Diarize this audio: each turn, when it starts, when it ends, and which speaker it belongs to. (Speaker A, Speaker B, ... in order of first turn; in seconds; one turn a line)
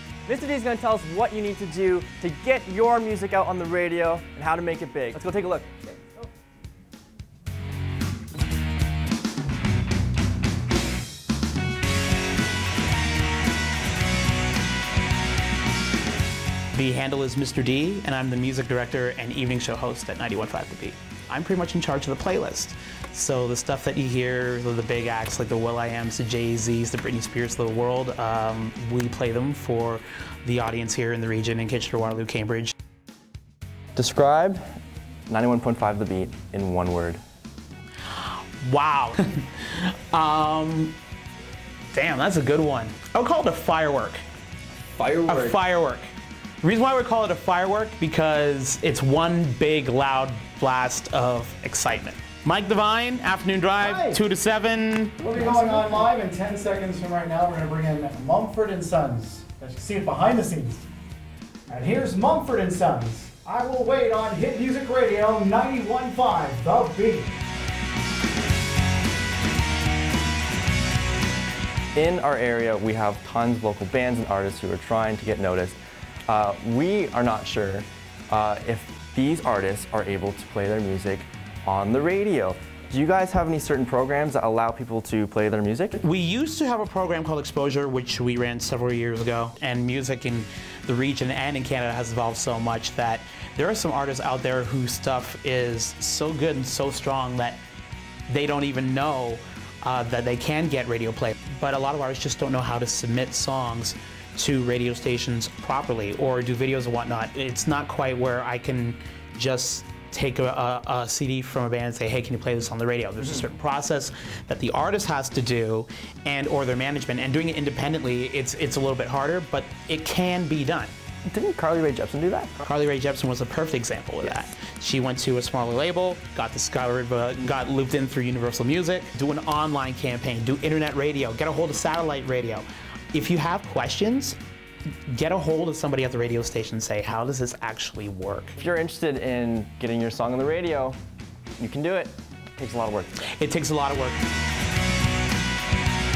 Speaker A: 0.2-5.8
Speaker B: 16.7-32.7
Speaker A: 34.0-34.7
Speaker A: 35.3-37.2
Speaker B: 38.1-41.0
Speaker B: 41.9-44.2
Speaker A: 45.0-45.6
Speaker B: 45.3-46.1
Speaker B: 46.6-55.2
Speaker C: 53.8-54.2
Speaker C: 55.2-60.9
Speaker A: 55.4-56.0
Speaker C: 61.7-67.3
Speaker A: 72.0-86.0
Speaker B: 86.0-97.6
Speaker B: 98.3-120.9
Speaker A: 121.2-122.6
Speaker B: 122.6-134.4
Speaker B: 135.1-138.6
Speaker A: 138.6-141.0
Speaker A: 141.6-143.2
Speaker B: 143.3-144.2